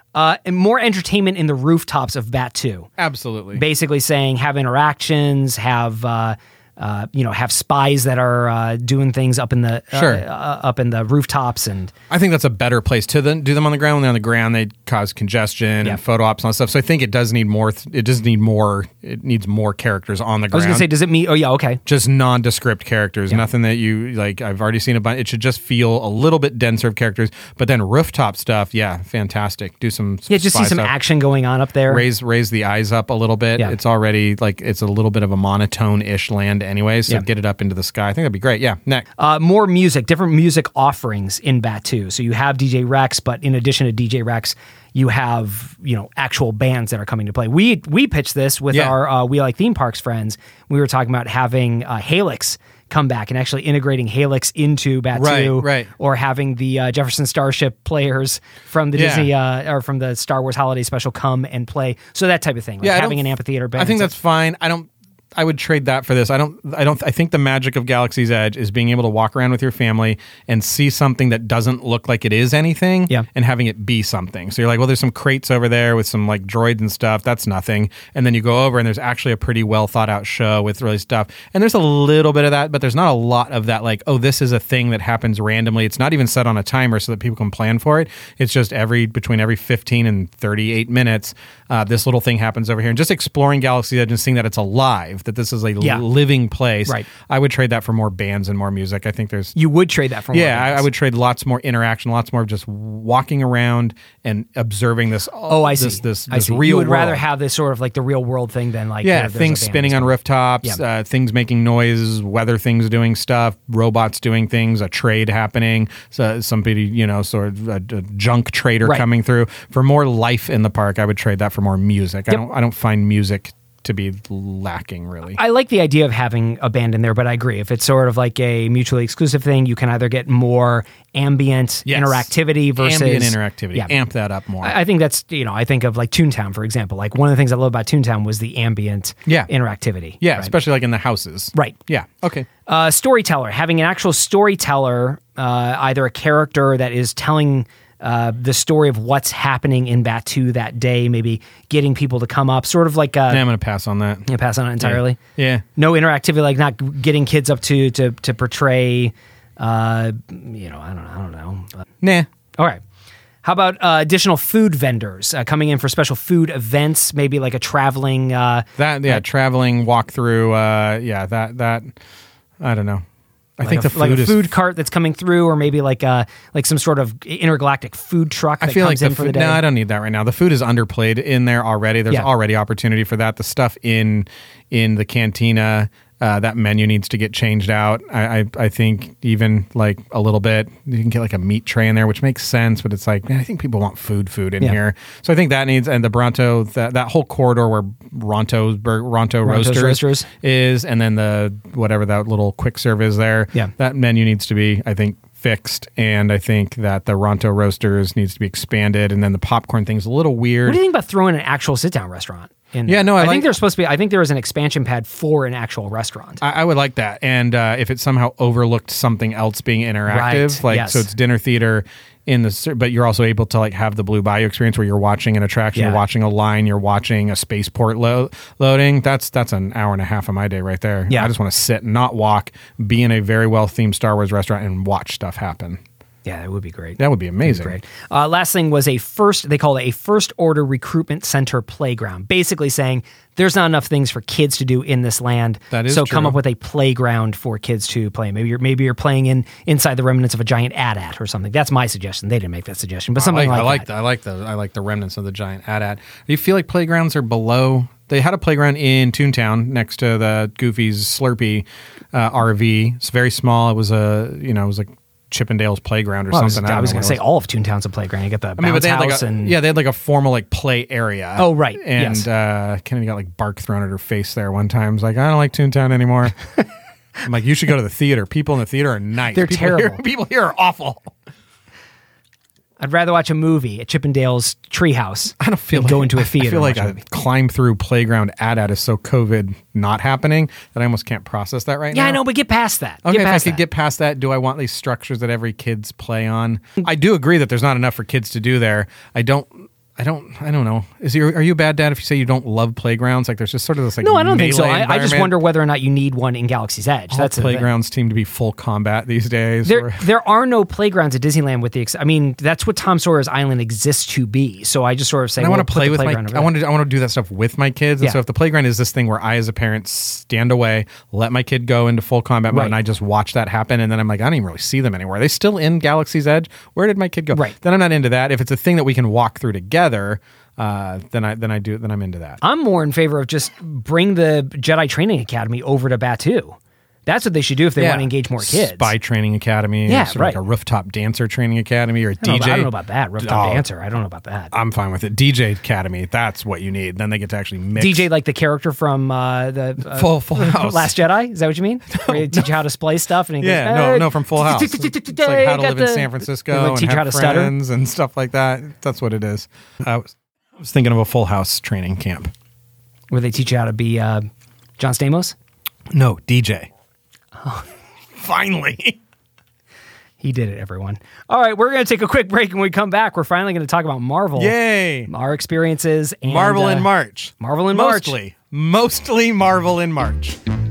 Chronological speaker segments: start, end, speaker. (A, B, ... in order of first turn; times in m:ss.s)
0:00.2-0:02.9 A
0:03.0-0:03.6 B
0:03.5-0:11.9 A
0:09.9-0:10.2 B
0:12.1-0:20.9 B
0:20.5-0:21.8 A
0:21.9-0:30.9 B
0:30.3-0:32.0 A
0:31.9-0:39.1 B
0:39.2-1:04.1 A
0:48.7-0:49.0 B
0:55.1-0:55.9 B
0:58.9-0:59.3 B
1:02.8-1:03.2 B
1:03.8-1:39.6 B
1:39.6-1:40.9 A
1:40.3-1:47.2 B
1:45.5-1:50.8 A
1:49.0-2:05.4 B
2:05.4-2:13.9 A
2:11.9-2:14.8 B
2:14.6-2:20.5 A
2:20.2-2:22.5 B
2:22.7-2:33.5 A
2:33.3-2:34.3 B
2:34.3-2:35.2 A
2:34.8-2:35.6 B
2:35.8-2:41.8 A
2:42.0-2:42.3 B
2:43.4-2:49.2 A
2:48.8-2:51.9 B
2:52.6-2:53.0 B
2:53.6-2:54.5 B
2:53.6-2:59.6 A
2:58.6-3:30.8 B
3:19.4-3:20.3 A
3:30.6-3:36.4 A
3:32.9-3:33.6 B
3:36.4-3:55.8 B
3:40.1-3:41.1 A
3:56.2-4:13.9 A
3:57.0-3:57.8 B
4:05.7-4:06.4 B
4:13.2-4:27.2 B
4:26.3-4:29.5 A
4:28.6-4:36.4 B
4:31.4-4:32.3 A
4:37.2-4:41.1 B
4:39.3-4:40.0 A
4:42.8-4:47.0 A
4:45.4-4:52.2 B
4:51.9-4:53.6 A
4:53.0-5:05.4 B
5:04.0-5:07.7 A
5:07.1-5:10.1 B
5:09.6-5:16.5 A
5:15.4-5:32.4 B
5:22.5-5:22.8 A
5:32.4-5:38.9 A
5:37.8-5:43.7 B
5:39.9-5:40.4 A
5:42.2-5:44.5 A
5:44.5-5:48.1 B
5:47.8-5:57.5 A
5:49.9-5:50.9 B
5:51.9-5:52.6 B
5:53.4-6:02.3 B
6:03.1-6:04.3 A
6:04.8-6:05.4 A
6:05.9-6:06.7 B
6:07.4-6:07.7 A
6:08.2-6:09.0 B
6:10.2-6:14.6 A
6:14.4-6:15.1 B
6:15.1-6:16.9 A
6:16.2-6:20.4 B
6:17.4-6:18.2 A